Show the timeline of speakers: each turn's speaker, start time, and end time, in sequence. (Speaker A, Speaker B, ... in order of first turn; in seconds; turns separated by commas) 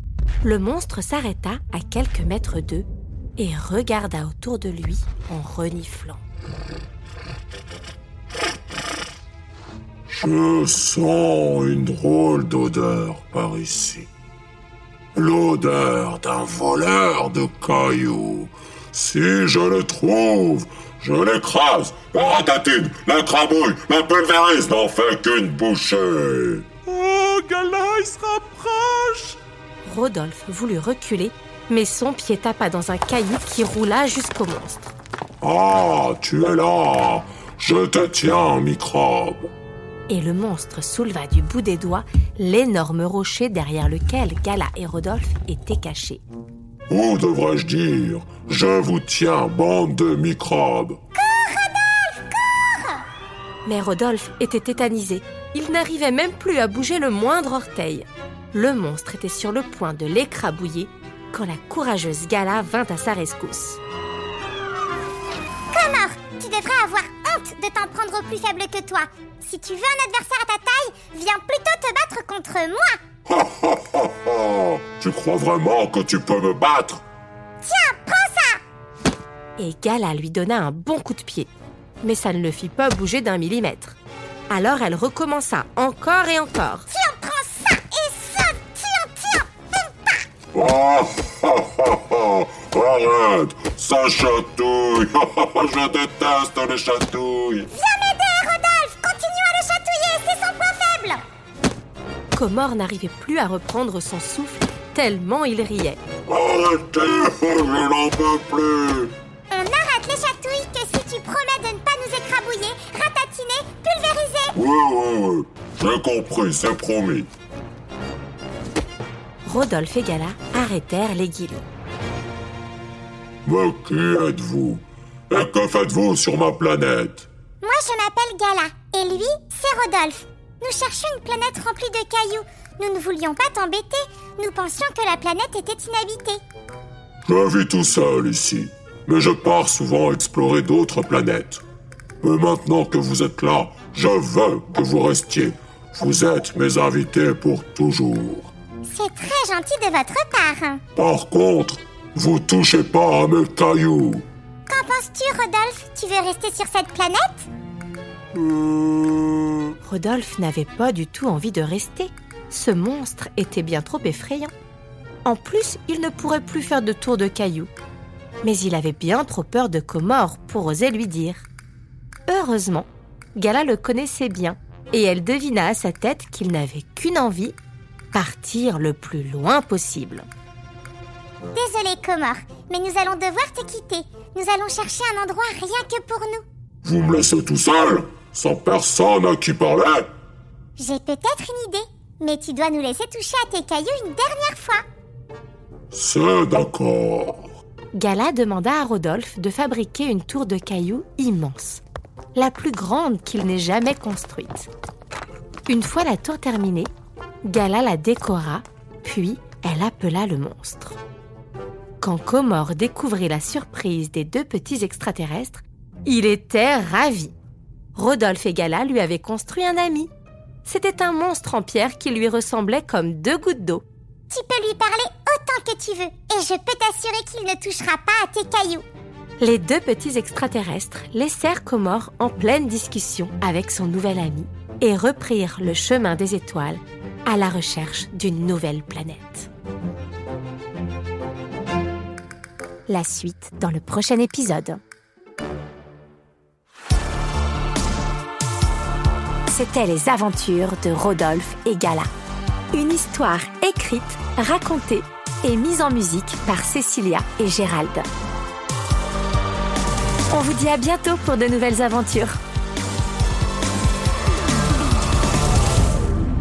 Speaker A: 0.4-6.2, Speaker B: 10.2-14.1, Speaker B: 15.2-26.7, Speaker C: 26.9-29.2, Speaker A: 29.9-34.9, Speaker B: 35.4-39.5, Speaker A: 40.1-46.2, Speaker B: 46.9-51.0, Speaker D: 51.1-53.0, Speaker A: 53.6-63.8, Speaker D: 65.7-73.0, Speaker B: 73.3-77.0, Speaker D: 77.6-78.6, Speaker A: 79.6-81.5, Speaker A: 82.0-84.0, Speaker A: 84.5-86.9, Speaker D: 86.9-90.2, Speaker B: 90.5-97.7, Speaker D: 97.7-101.2, Speaker A: 102.3-106.0, Speaker B: 106.3-109.1, Speaker D: 109.5-114.5, Speaker B: 114.5-117.3, Speaker A: 119.5-121.7, Speaker B: 123.5-127.3, Speaker D: 127.6-136.4, Speaker B: 137.3-141.6, Speaker B: 142.2-148.5, Speaker D: 148.8-150.8, Speaker B: 151.0-154.2, Speaker D: 154.7-157.5, Speaker C: 158.4-159.6, Speaker A: 159.8-164.5, Speaker A: 165.2-167.7, Speaker A: 168.4-171.5, Speaker A: 172.3-177.6, Speaker A: 178.1-180.3, Speaker D: 181.6-186.4, Speaker B: 186.8-190.1, Speaker D: 190.8-194.8, Speaker B: 195.9-197.5, Speaker A: 197.9-201.8, Speaker A: 202.3-204.7, Speaker A: 205.7-206.9, Speaker A: 207.4-211.0, Speaker A: 212.0-217.3, Speaker A: 217.9-220.1, Speaker A: 220.7-223.8, Speaker D: 224.3-228.8, Speaker A: 229.4-239.5, Speaker A: 242.9-244.8, Speaker A: 249.5-252.1, Speaker A: 252.7-258.1, Speaker A: 260.3-262.4